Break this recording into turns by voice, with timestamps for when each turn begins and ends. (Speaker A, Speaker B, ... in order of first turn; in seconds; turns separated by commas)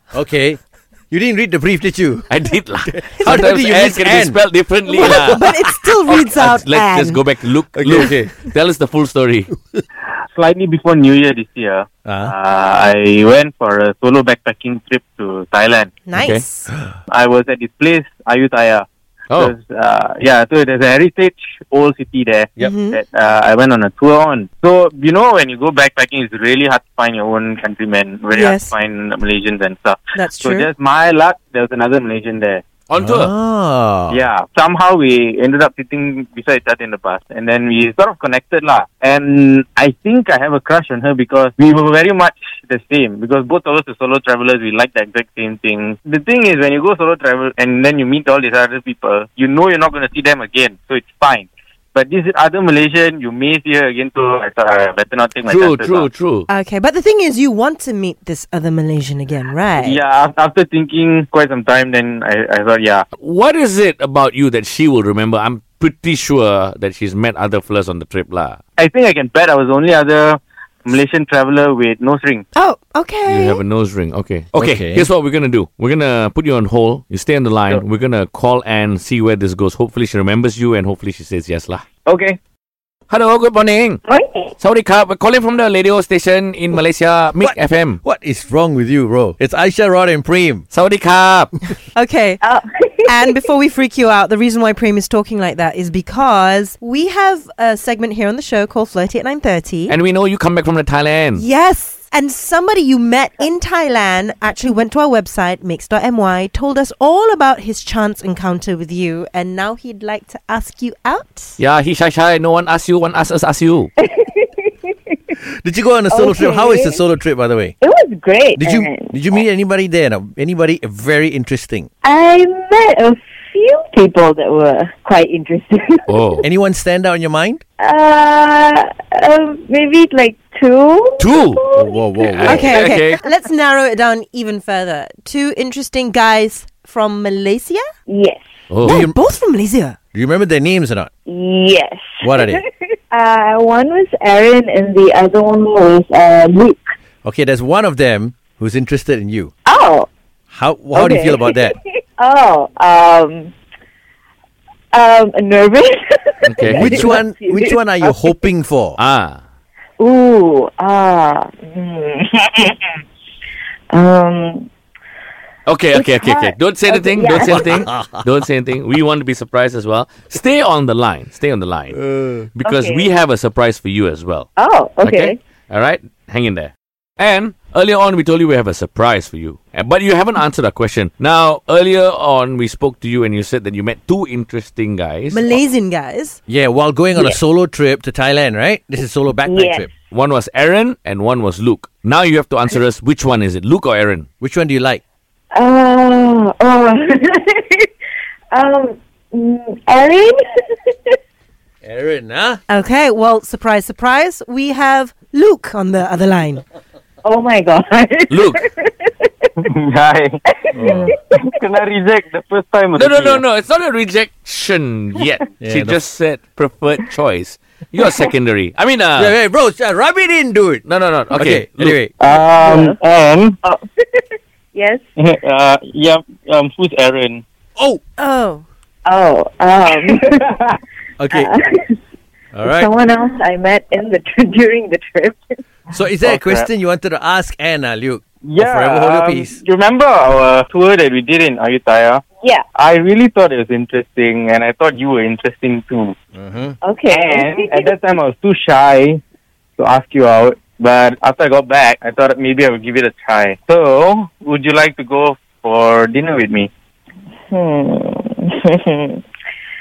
Speaker A: 0.1-4.4, Speaker B: 2.3-5.4, Speaker C: 4.9-7.2, Speaker A: 5.0-5.8, Speaker B: 6.1-9.5, Speaker A: 7.8-8.2, Speaker D: 10.3-15.9, Speaker A: 12.1-12.3, Speaker C: 16.0-16.7, Speaker B: 16.1-16.4, Speaker D: 17.1-32.6, Speaker C: 22.6-23.0, Speaker C: 28.3-28.7, Speaker C: 30.1-30.7, Speaker B: 32.9-33.3, Speaker A: 33.0-34.2, Speaker D: 34.1-56.1, Speaker B: 55.5-56.5, Speaker C: 56.5-60.0, Speaker D: 59.8-63.0, Speaker B: 63.2-68.6, Speaker D: 68.8-72.4, Speaker C: 72.5-73.6, Speaker B: 73.3-81.8, Speaker A: 74.5-75.1, Speaker D: 82.0-82.4, Speaker B: 83.1-84.0, Speaker E: 84.1-84.5, Speaker B: 84.6-88.0, Speaker A: 87.4-90.7, Speaker B: 90.7-91.5, Speaker C: 91.9-92.4, Speaker E: 92.4-93.3, Speaker C: 93.0-99.9, Speaker B: 99.9-101.4, Speaker C: 101.3-111.6, Speaker B: 111.6-113.9, Speaker E: 114.0-115.3, Speaker A: 115.4-117.7, Speaker E: 116.1-117.0, Speaker E: 117.8-119.4, Speaker A: 118.6-121.9, Speaker E: 122.0-126.1, Speaker B: 126.1-126.4, Speaker A: 126.4-127.6, Speaker E: 127.8-132.6, Speaker B: 131.2-131.6, Speaker A: 131.7-132.7, Speaker B: 132.4-133.2, Speaker C: 132.4-137.8, Speaker E: 138.1-138.4, Speaker B: 138.7-139.0, Speaker C: 138.8-140.0, Speaker A: 138.8-139.2, Speaker A: 140.1-141.1, Speaker E: 141.2-146.9, Speaker A: 142.2-142.6, Speaker A: 147.2-149.5, Speaker E: 149.7-150.1, Speaker A: 150.5-151.7, Speaker E: 150.9-153.5, Speaker E: 154.9-158.5, Speaker B: 156.4-157.2, Speaker A: 156.6-159.0, Speaker B: 159.0-159.4, Speaker E: 160.0-163.0, Speaker E: 163.9-164.7, Speaker B: 165.7-172.0, Speaker E: 165.9-167.9, Speaker A: 167.3-168.2, Speaker A: 171.9-172.4, Speaker B: 172.5-174.5, Speaker E: 172.6-173.1, Speaker E: 174.6-175.4, Speaker B: 175.0-185.6, Speaker C: 185.3-186.4, Speaker A: 186.5-189.9, Speaker E: 189.5-189.9, Speaker B: 190.1-194.3, Speaker A: 194.4-195.0, Speaker E: 195.5-197.9, Speaker E: 198.5-201.2, Speaker A: 201.8-202.6, Speaker C: 202.7-206.6, Speaker E: 207.2-209.5, Speaker B: 208.3-208.6, Speaker D: 209.6-213.4, Speaker E: 210.5-211.4, Speaker A: 210.7-211.1, Speaker B: 212.9-219.3, Speaker A: 215.6-216.0, Speaker A: 219.2-222.1, Speaker B: 220.8-222.0, Speaker D: 222.2-223.6, Speaker E: 222.3-223.0, Speaker E: 223.6-225.0, Speaker D: 225.2-227.4, Speaker C: 228.2-228.6, Speaker E: 229.0-230.5, Speaker D: 230.1-230.6, Speaker A: 231.2-231.5, Speaker E: 231.3-232.0, Speaker A: 232.5-232.9, Speaker E: 232.6-235.6, Speaker A: 235.9-239.6, Speaker D: 236.2-236.7, Speaker D: 238.4-242.2, Speaker D: 242.7-246.1, Speaker A: 246.3-246.8, Speaker E: 246.8-247.9, Speaker D: 247.1-249.2, Speaker D: 249.8-256.7, Speaker E: 257.5-259.2